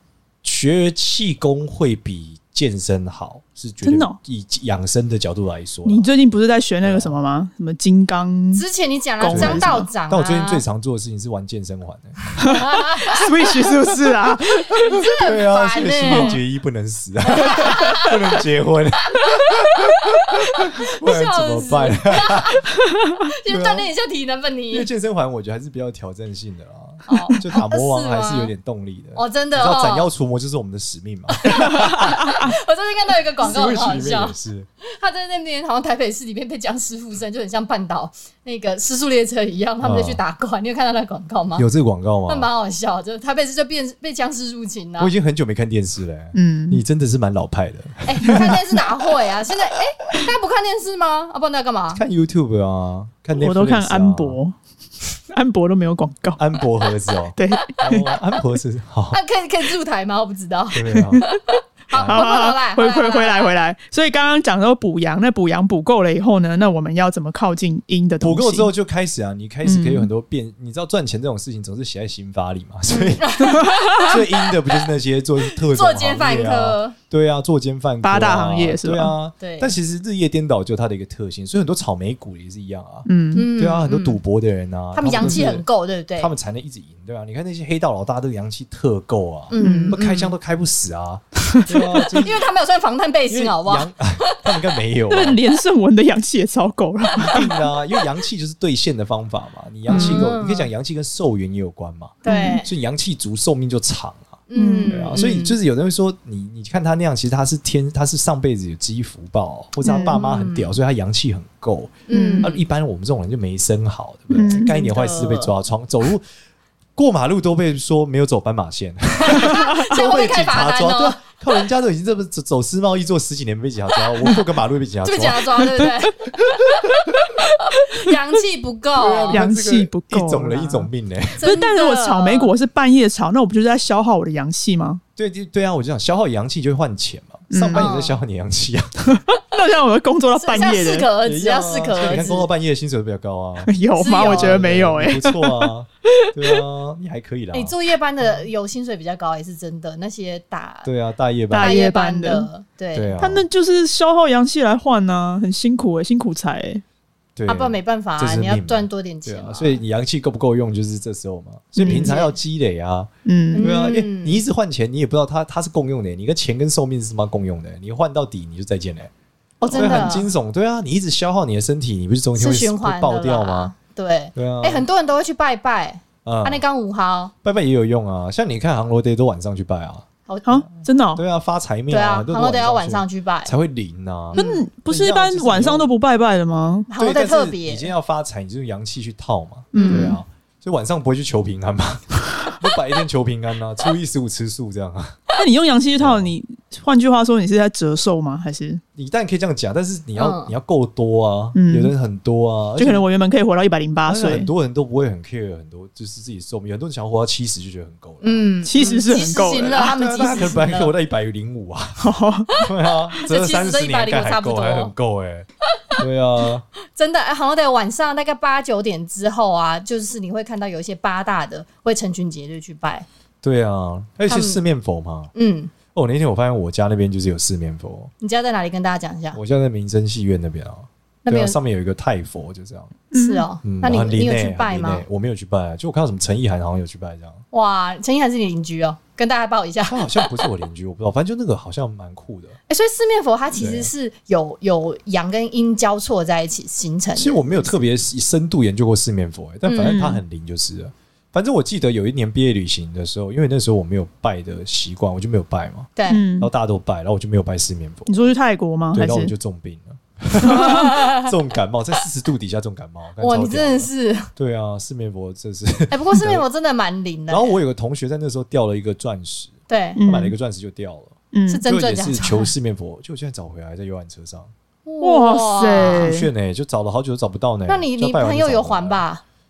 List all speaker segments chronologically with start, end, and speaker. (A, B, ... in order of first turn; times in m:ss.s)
0:00.4-0:06.1 A
0:03.8-0:04.2 B
0:05.8-0:08.6 B
0:06.8-0:07.2 A
0:08.6-0:10.6 C
0:09.2-0:09.9 B
0:09.3-0:12.5 A
0:12.4-0:14.9 B
0:12.4-0:13.5 C
0:14.7-0:16.4 C
0:14.8-0:22.6 A
0:16.1-0:16.4 B
0:17.3-0:18.4 C
0:19.1-0:22.6 C
0:22.8-0:23.2 B
0:23.3-0:24.9 C
0:23.5-0:23.9 A
0:24.7-0:32.3 A
0:27.1-0:28.5 C
0:27.1-0:27.4 B
0:29.2-0:30.1 C
0:31.4-0:41.7 C
0:31.7-0:32.5 B
0:33.4-0:34.7 A
0:39.8-0:40.2 A
0:41.6-0:42.5 A
0:42.3-0:45.1 C
0:45.0-0:48.9 A
0:46.3-0:46.8 B
0:48.0-0:52.0 C
0:51.9-0:54.4 A
0:53.3-0:54.6 B
0:55.3-0:56.4 B
0:56.4-0:59.2 A
0:57.4-0:57.8 B
0:59.1-1:03.6 C
1:00.7-1:01.2 A
1:01.0-1:01.3 B
1:01.9-1:02.2 A
1:02.1-1:08.7 B
1:08.2-1:25.7 A
1:09.6-1:10.1 B
1:12.9-1:14.6 C
1:13.4-1:14.1 B
1:15.5-1:17.0 C
1:18.0-1:19.1 B
1:19.4-1:19.7 C
1:23.1-1:23.5 B
1:23.3-1:24.2 C
1:24.9-1:26.3 C
1:25.2-1:25.5 B
1:26.2-1:32.5 A
1:29.5-1:30.3 C
1:29.6-1:30.0 B
1:32.1-1:34.6 C
1:33.3-1:35.4 A
1:35.1-1:37.4 B
1:37.2-1:56.3 A
1:39.9-1:40.2 B
1:39.9-1:40.7 C
1:42.2-1:42.6 B
1:42.2-1:42.7 C
1:44.5-1:45.6 C
1:44.6-1:45.1 B
1:49.8-1:50.2 B
1:49.9-1:50.7 C
1:52.1-1:52.6 C
1:52.1-1:52.5 B
1:54.3-1:54.8 B
1:54.5-1:55.5 C
1:57.0-2:05.9 A
1:59.2-2:01.3 C
1:59.5-1:59.9 B
2:05.0-2:07.0 C
2:07.4-2:08.2 B
2:07.7-2:09.4 C
2:09.0-2:11.4 A
2:09.3-2:10.9 B
2:11.4-2:12.5 C
2:11.4-2:15.0 B
2:15.2-2:19.1 A
2:17.5-2:17.9 B
2:17.7-2:18.2 C
2:19.1-2:21.1 B
2:20.4-2:22.5 C
2:21.2-2:27.8 A
2:23.6-2:26.3 B
2:24.0-2:24.7 C
2:27.5-2:30.9 C
2:30.8-2:31.8 A
2:31.5-2:32.5 B
2:31.6-2:33.2 C
2:32.9-2:33.4 A
2:33.2-2:36.8 B
2:37.4-2:49.1 A
2:37.5-2:39.8 C
2:41.8-2:42.1 B
2:41.8-2:42.3 C
2:43.2-2:43.7 B
2:43.5-2:44.4 C
2:49.6-2:50.3 C
2:49.7-2:50.1 B
2:49.7-2:53.7 A
2:52.4-2:57.3 C
2:54.4-2:54.9 A
2:56.2-2:56.6 A
2:57.4-3:00.1 A
3:00.3-3:00.6 C
3:00.4-3:01.2 B
3:01.2-3:05.9 A
3:01.9-3:03.5 C
3:04.3-3:04.6 C
3:04.4-3:06.9 B
3:06.9-3:07.9 C
3:07.0-3:15.2 A
3:09.7-3:10.2 B
3:09.8-3:10.2 C
3:15.4-3:18.8 B
3:16.0-3:16.3 A
3:19.0-3:23.0 A
3:20.2-3:20.5 C
3:21.5-3:21.9 B
3:22.8-3:24.5 B
3:24.1-3:28.5 A
3:28.2-3:30.9 C
3:28.6-3:29.9 B
3:29.1-3:36.6 A
3:32.0-3:32.5 B
3:33.2-3:34.9 C
3:37.0-3:43.1 C
3:43.4-3:45.3 A
3:44.3-3:44.6 C
3:45.4-3:45.7 C
3:45.9-3:48.1 A
3:48.2-3:49.4 C
3:49.3-3:53.0 A
3:51.2-3:51.6 C
3:53.1-3:53.4 B
3:53.1-3:55.0 C
3:53.6-3:57.4 A
3:57.5-4:00.4 C
3:59.9-4:02.6 A
4:02.7-4:07.8 C
4:03.5-4:03.9 A
4:07.2-4:15.9 A
4:09.7-4:10.2 C
4:16.0-4:16.2 C
4:16.1-4:16.5 B
4:16.4-4:18.3 A
4:18.1-4:19.3 B
4:18.9-4:26.4 A
4:20.6-4:21.3 C
4:23.2-4:24.3 C
4:25.9-4:27.6 C
4:27.3-4:34.5 A
4:29.7-4:30.0 C
4:30.0-4:30.3 B
4:31.3-4:31.6 B
4:31.5-4:32.5 C
4:34.9-4:36.1 C
4:35.0-4:36.3 B
4:35.8-4:39.0 A
4:37.7-4:39.2 C